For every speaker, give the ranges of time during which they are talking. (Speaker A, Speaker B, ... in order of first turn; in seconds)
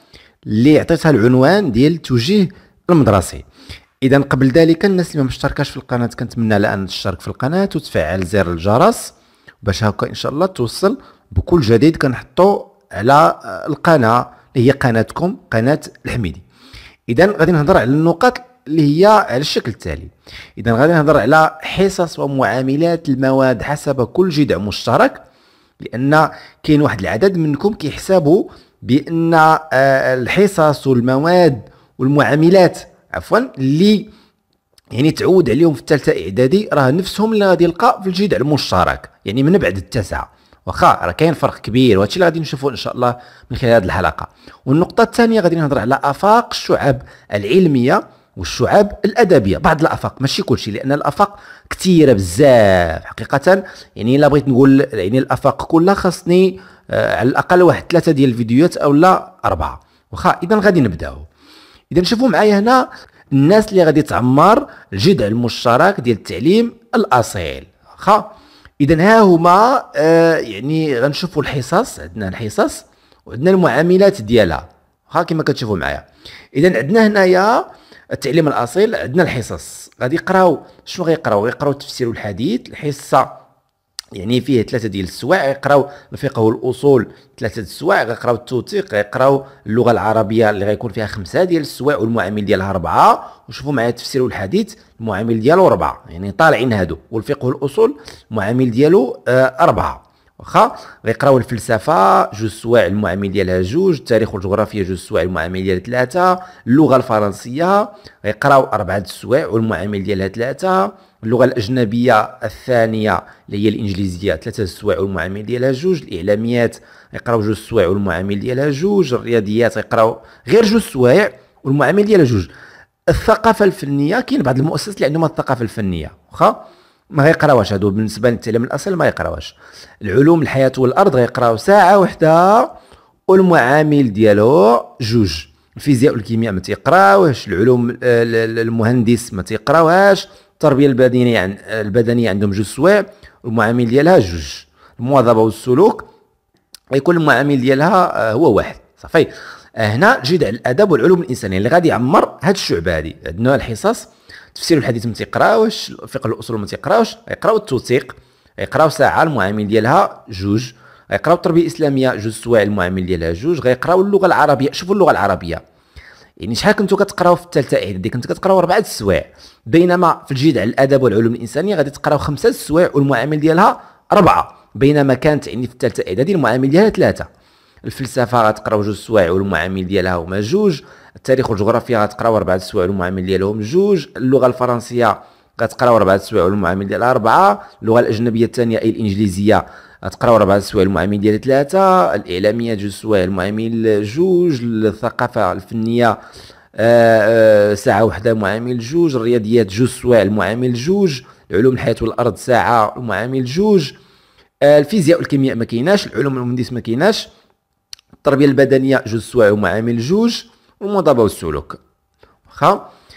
Speaker A: 0.5-3.4, 4.0-9.1, 9.6-16.4, 17.1-25.2, 25.8-34.1, 34.9-61.3, 61.9-76.0, 76.6-83.2, 84.2-122.5, 123.1-126.6, 127.1-132.7, 133.3-146.1, 146.9-165.6, 166.4-177.3, 177.8-196.2, 196.8-203.9, 204.6-207.3, 208.2-211.8, 212.5-212.8